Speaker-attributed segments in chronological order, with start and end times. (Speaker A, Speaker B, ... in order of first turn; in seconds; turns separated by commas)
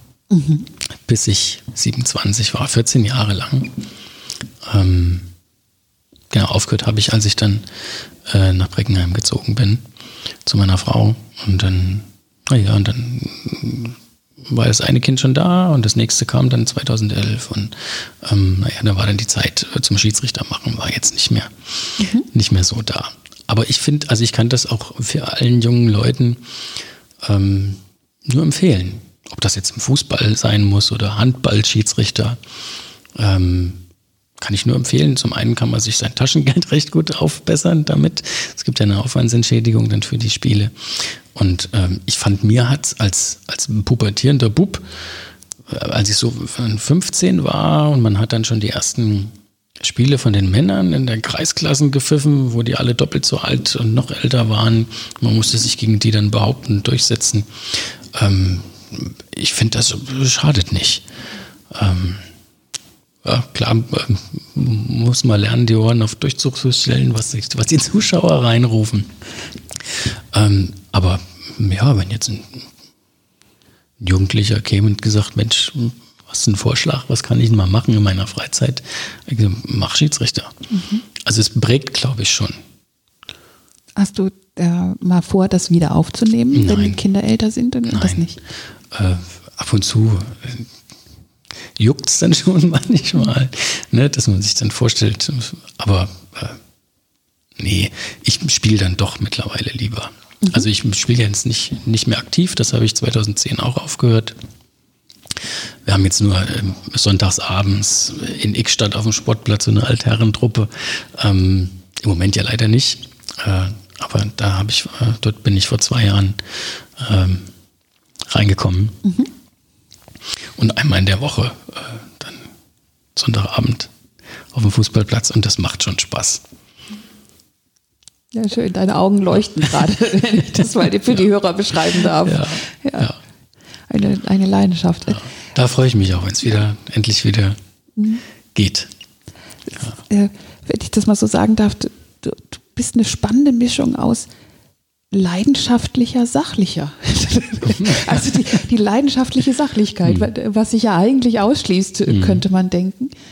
Speaker A: 0.3-0.7, Speaker B: 1.1-3.8, Speaker B: 4.6-5.3, Speaker B: 6.3-7.7, Speaker B: 8.2-9.8, Speaker B: 10.4-26.4, Speaker A: 22.0-22.3, Speaker B: 27.2-32.4, Speaker B: 33.1-33.8, Speaker B: 34.4-44.8, Speaker B: 45.7-61.0, Speaker B: 61.7-62.2, Speaker B: 63.2-69.2, Speaker B: 69.8-72.7, Speaker B: 74.0-80.6, Speaker A: 80.7-81.0, Speaker B: 81.2-82.6, Speaker A: 84.0-88.4, Speaker B: 86.5-87.0, Speaker B: 87.9-88.2, Speaker B: 88.9-90.7, Speaker B: 91.8-96.6, Speaker B: 97.6-104.4, Speaker B: 105.8-117.5, Speaker B: 118.3-119.0, Speaker B: 120.6-122.5, Speaker B: 123.2-123.9, Speaker B: 124.5-126.4, Speaker A: 128.3-133.1, Speaker B: 132.2-133.2, Speaker A: 133.9-135.3, Speaker B: 135.2-137.6, Speaker A: 138.0-138.2, Speaker B: 138.5-138.9, Speaker A: 139.8-144.3, Speaker A: 145.1-153.2, Speaker B: 147.7-148.2, Speaker B: 152.1-152.4